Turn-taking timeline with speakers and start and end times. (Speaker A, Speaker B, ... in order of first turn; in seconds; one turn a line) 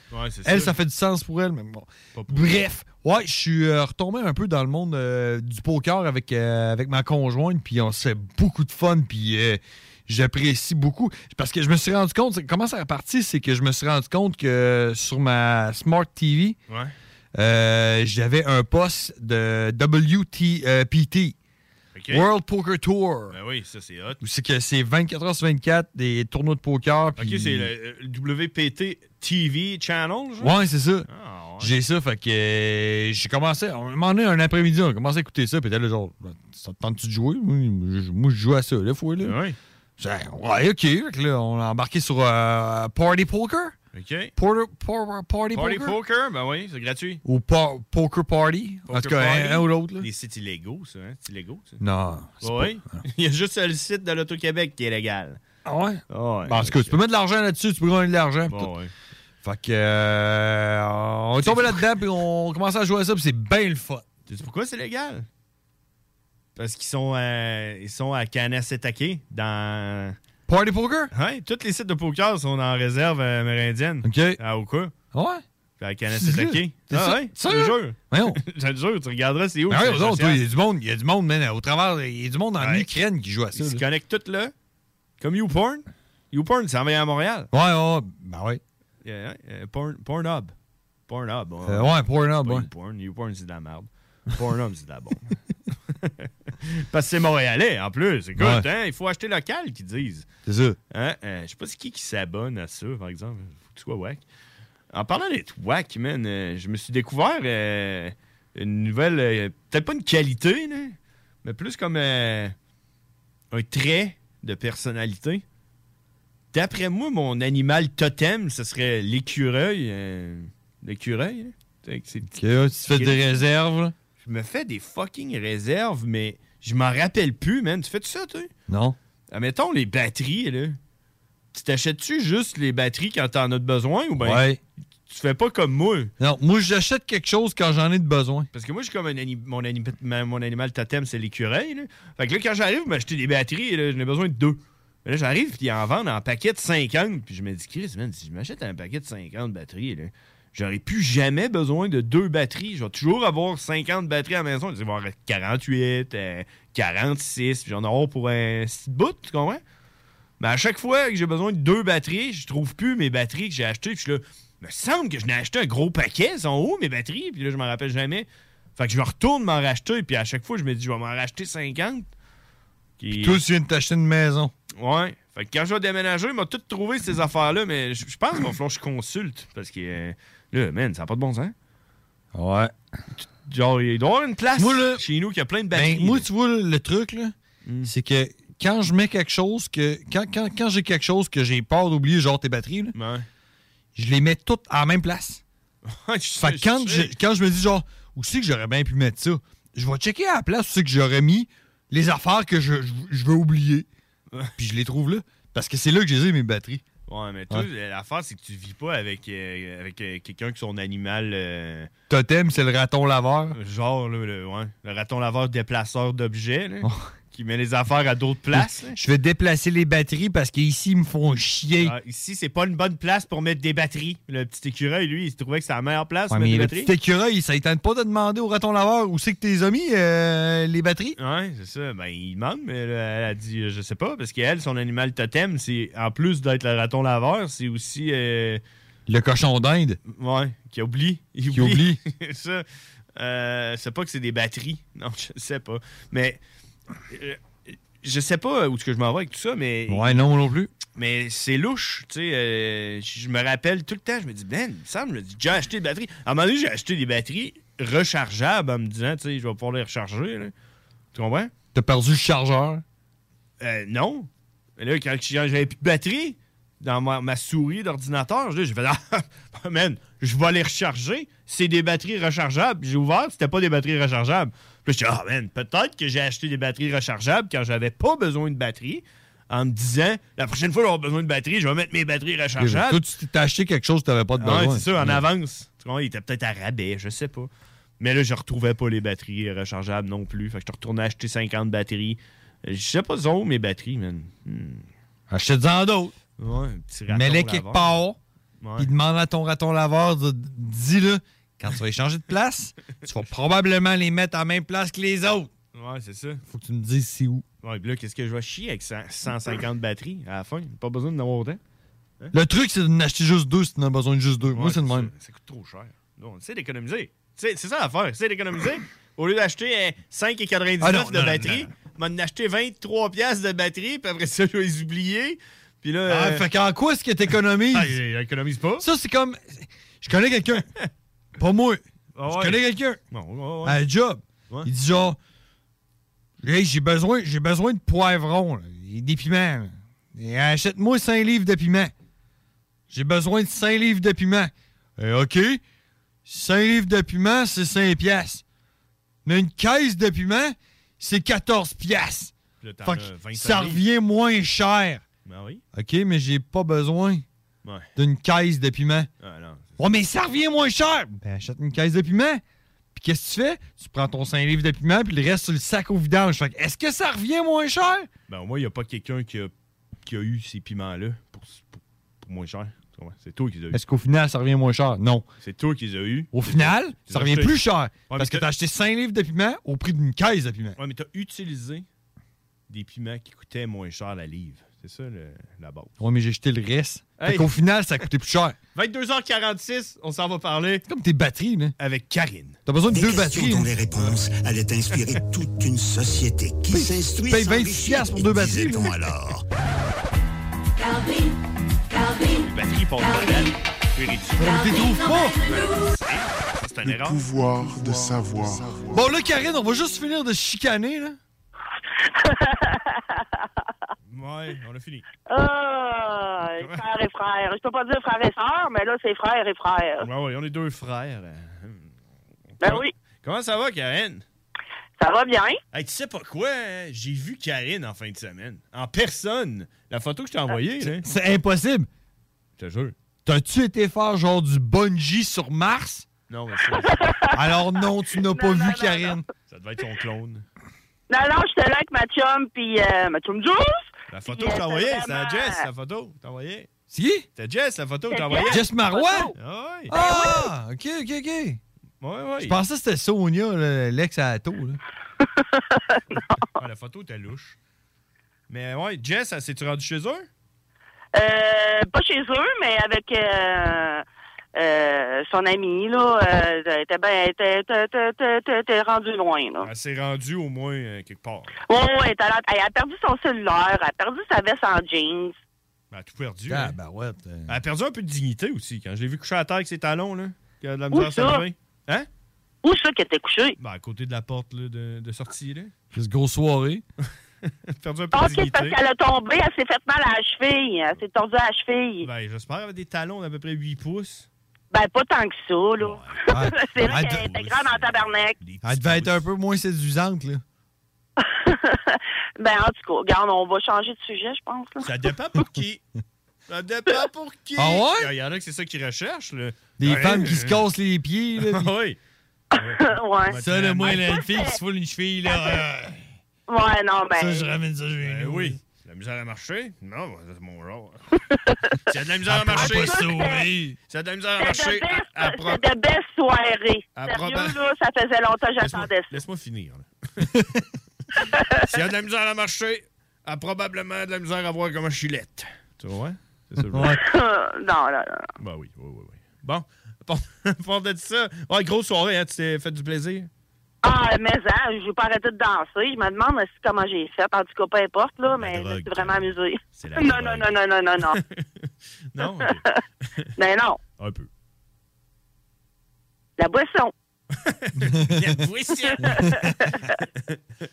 Speaker A: 0.1-0.7
Speaker B: 0.4-16.6
Speaker A: 2.1-2.6
Speaker A: 16.7-16.9
Speaker B: 17.3-21.3
Speaker A: 21.9-22.3
Speaker B: 22.1-23.4
Speaker A: 23.3-24.2
Speaker B: 24.2-27.7
Speaker A: 27.2-30.5
Speaker B: 30.4-31.1
Speaker A: 31.1-31.7
Speaker B: 31.6-39.4
Speaker A: 39.2-39.5
Speaker B: 40.0-43.7
Speaker A: 43.9-44.3
Speaker B: 44.4-46.0
Speaker A: 45.5-47.2
Speaker B: 47.2-50.0
Speaker A: 48.9-51.8
Speaker B: 51.8-52.8
Speaker A: 52.4-55.4
Speaker B: 55.6-58.7
Speaker A: 56.1-57.0
Speaker A: 58.5-58.9
Speaker B: 59.4-64.0
Speaker A: 61.4-61.9
Speaker A: 64.3-65.2
Speaker A: 66.5-70.2
Speaker B: 70.5-71.1
Speaker A: 71.1-74.9
Speaker B: 74.0-74.4
Speaker B: 75.1-75.4
Speaker A: 75.8-80.4
Speaker B: 76.1-78.4
Speaker B: 79.7-83.8
Speaker A: 82.6-83.0
Speaker A: 83.5-84.5
Speaker A: 85.2-87.5
Speaker B: 87.5-88.6
Speaker A: 89.0-90.5
Speaker A: 91.1-95.3
Speaker B: 91.7-92.7
Speaker A: 96.0-100.3
Speaker B: 98.4-98.6
Speaker B: 100.5-100.8
Speaker A: 100.9-104.2
Speaker A: 104.9-112.5
Speaker A: 113.5-115.4
Speaker A: 116.5-122.3
Speaker B: 122.3-123.9
Speaker A: 122.9-123.4
Speaker A: 124.2-128.5
Speaker B: 128.7-128.9
Speaker A: 129.3-130.8
Speaker A: 131.5-134.4
Speaker B: 134.2-134.6
Speaker A: 135.1-136.1
Speaker B: 136.2-138.5
Speaker A: 138.5-159.6
Speaker A: 160.4-172.1
Speaker A: 173.0-173.4
Speaker B: 173.1-174.5
Speaker A: 174.8-181.5
Speaker B: 182.3-182.7
Speaker A: 183.4-186.2
Speaker B: 184.6-185.0
Speaker B: 185.7-192.9
Speaker A: 187.6-187.9
Speaker A: 192.9-193.3
Speaker B: 193.9-195.4
Speaker A: 195.9-197.1
Speaker B: 196.4-203.9
Speaker B: 204.6-206.8
Speaker A: 207.1-211.9
Speaker B: 212.1-213.6
Speaker A: 213.5-219.0
Speaker B: 216.8-217.1
Speaker B: 218.5-221.9
Speaker A: 221.8-226.9
Speaker B: 226.3-231.2
Speaker A: 231.2-238.6
Speaker B: 239.1-240.0
Speaker A: 240.1-242.6
Speaker B: 241.5-242.0
Speaker A: 243.2-246.4
Speaker A: 247.1-247.4
Speaker A: 248.0-250.2
Speaker B: 249.9-250.7
Speaker A: 250.9-260.5
Speaker A: 261.1-261.5
Speaker B: 261.7-262.8
Speaker A: 263.6-283.0
Speaker B: 282.6-285.2
Speaker A: 284.4-294.9
Speaker B: 295.3-296.1
Speaker A: 296.4-297.9
Speaker B: 297.1-298.2
Speaker A: 298.6-298.9
Speaker B: 298.8-305.5
Speaker A: 305.7-306.4
Speaker B: 306.5-307.4
Speaker A: 307.6-311.6
Speaker B: 312.3-315.1
Speaker A: 314.5-326.4
Speaker B: 320.8-321.7
Speaker B: 326.1-327.9
Speaker A: 327.3-328.9
Speaker B: 328.8-330.6
Speaker B: 331.4-333.0
Speaker A: 332.1-333.8
Speaker B: 333.6-335.2
Speaker B: 336.4-341.9
Speaker B: 342.9-345.6
Speaker B: 346.2-348.4
Speaker B: 349.2-352.3
Speaker A: 352.6-353.8
Speaker B: 352.8-355.0
Speaker A: 355.2-355.6
Speaker B: 355.7-357.2
Speaker A: 357.6-357.9
Speaker B: 357.9-359.1
Speaker A: 359.2-359.8
Speaker B: 359.8-362.4
Speaker B: 362.9-368.1
Speaker A: 368.3-369.5
Speaker A: 370.0-373.8
Speaker B: 373.7-375.2
Speaker A: 375.4-378.5
Speaker B: 376.3-380.8
Speaker A: 380.8-381.9
Speaker A: 382.7-385.9
Speaker B: 386.0-388.6
Speaker A: 387.2-387.5
Speaker A: 388.7-390.8
Speaker B: 390.9-391.7
Speaker A: 391.8-392.6
Speaker B: 392.7-393.8
Speaker C: 392.9-399.4
Speaker A: 393.9-394.2
Speaker A: 394.9-395.2
Speaker B: 396.7-399.0
Speaker D: 400.8-401.3
Speaker D: 401.9-402.4
Speaker A: 402.4-404.7
Speaker D: 403.1-403.4
Speaker B: 404.4-405.4
Speaker D: 404.5-405.7
Speaker A: 405.4-408.1
Speaker B: 408.9-411.2
Speaker E: 412.1-413.4
Speaker A: 414.1-415.1
Speaker E: 415.3-420.1
Speaker A: 416.6-416.8
Speaker A: 420.0-421.9
Speaker A: 422.6-424.2
Speaker E: 422.6-422.9
Speaker E: 425.0-425.6
Speaker A: 425.7-431.1
Speaker B: 430.8-431.9
Speaker A: 432.6-432.9
Speaker B: 433.2-436.1
Speaker A: 436.3-437.1
Speaker E: 436.9-437.4
Speaker B: 437.3-439.2
Speaker E: 438.3-439.2
Speaker A: 439.5-440.4
Speaker E: 441.1-445.6
Speaker A: 444.1-446.7
Speaker B: 446.9-447.3
Speaker A: 447.4-448.6
Speaker E: 448.1-449.3
Speaker B: 448.5-449.3
Speaker A: 449.3-450.0
Speaker B: 449.9-451.6
Speaker E: 449.9-450.4
Speaker A: 452.0-452.6
Speaker B: 452.4-454.8
Speaker E: 455.4-456.4
Speaker A: 456.6-457.6
Speaker A: 458.5-460.3
Speaker E: 461.1-464.0
Speaker E: 464.6-469.7
Speaker A: 469.6-471.5
Speaker E: 471.7-475.4
Speaker A: 475.9-476.7
Speaker B: 476.5-477.5
Speaker A: 477.5-482.1
Speaker E: 480.9-481.4
Speaker E: 482.6-483.6
Speaker A: 483.6-485.7
Speaker B: 485.9-486.8
Speaker A: 487.7-488.8
Speaker E: 488.1-492.1
Speaker A: 492.0-494.3
Speaker E: 494.7-498.4
Speaker A: 495.8-496.2
Speaker B: 496.3-497.3
Speaker A: 496.8-499.2
Speaker B: 498.6-500.4
Speaker E: 501.2-504.9
Speaker A: 504.8-505.8
Speaker A: 506.5-510.6
Speaker B: 507.6-508.1
Speaker B: 509.8-511.7
Speaker A: 511.4-512.0
Speaker E: 512.6-513.4
Speaker A: 512.6-514.0
Speaker B: 513.4-516.0
Speaker E: 514.0-514.5
Speaker E: 516.5-517.4
Speaker B: 517.2-518.6
Speaker A: 518.0-521.0
Speaker E: 521.3-521.8
Speaker A: 521.9-523.1
Speaker B: 522.3-523.8
Speaker E: 522.6-523.5
Speaker A: 523.9-525.6
Speaker E: 524.4-529.1
Speaker A: 526.9-527.6
Speaker A: 528.6-530.4
Speaker E: 531.3-531.7
Speaker A: 531.7-537.0
Speaker B: 536.7-537.0
Speaker E: 537.0-538.3
Speaker A: 538.4-543.3
Speaker E: 543.8-551.1
Speaker A: 548.3-550.5
Speaker A: 551.0-552.6
Speaker E: 552.5-552.8
Speaker E: 553.4-553.8
Speaker A: 554.0-554.3
Speaker E: 556.4-556.9
Speaker A: 557.3-559.4
Speaker B: 557.8-558.3
Speaker E: 558.9-559.4
Speaker B: 559.2-559.5